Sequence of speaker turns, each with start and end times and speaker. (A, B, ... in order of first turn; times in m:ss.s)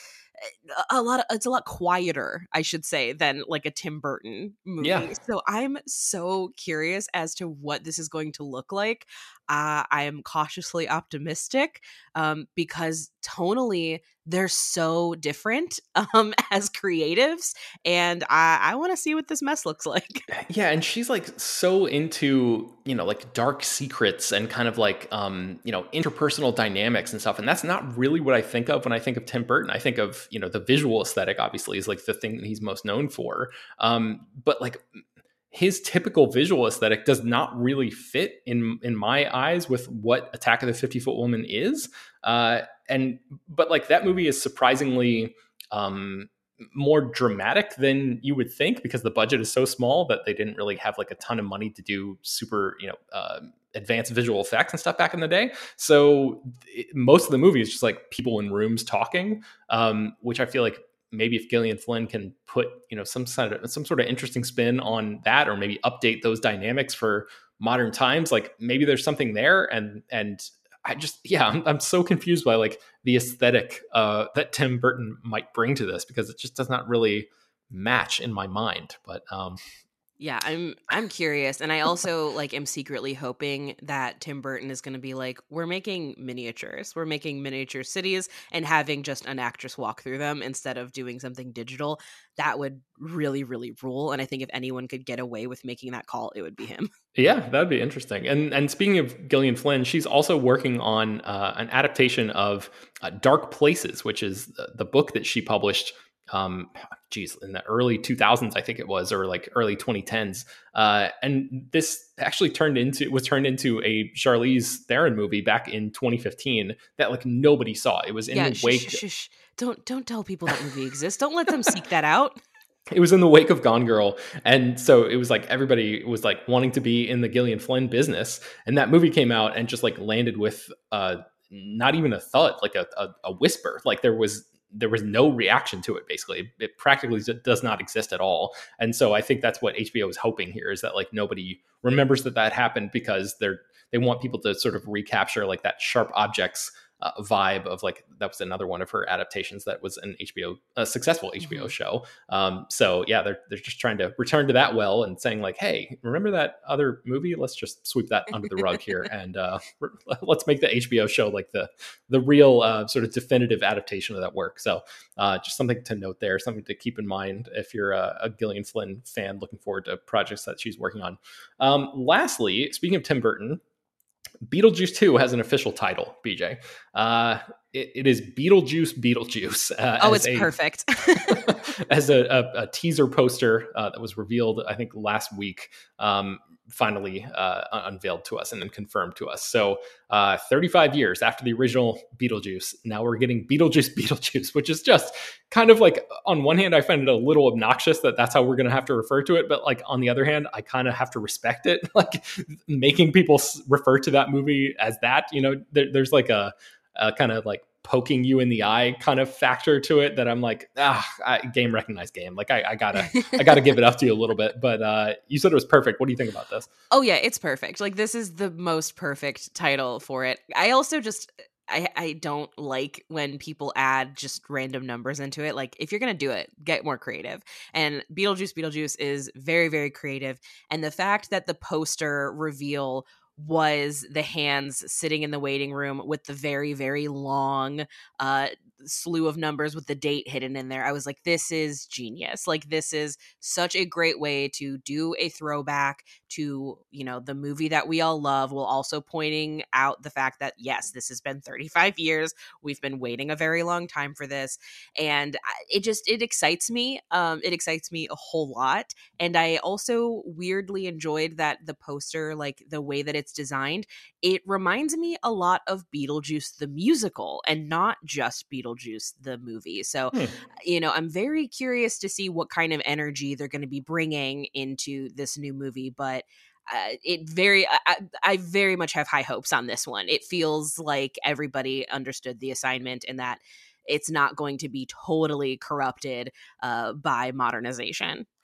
0:00.4-0:20.3 A
0:04.8-0:05.1 B
0:20.3-0:34.8 B
0:35.5-1:19.6 B
1:20.2-1:36.9 A
1:37.2-1:59.0 B
1:58.3-2:02.4 A
2:02.9-2:53.6 B
2:31.4-2:31.7 A
2:54.5-3:00.5 B
3:00.0-3:01.5 A
3:01.3-3:36.7 B
3:33.0-3:33.7 A
3:36.9-4:48.2 A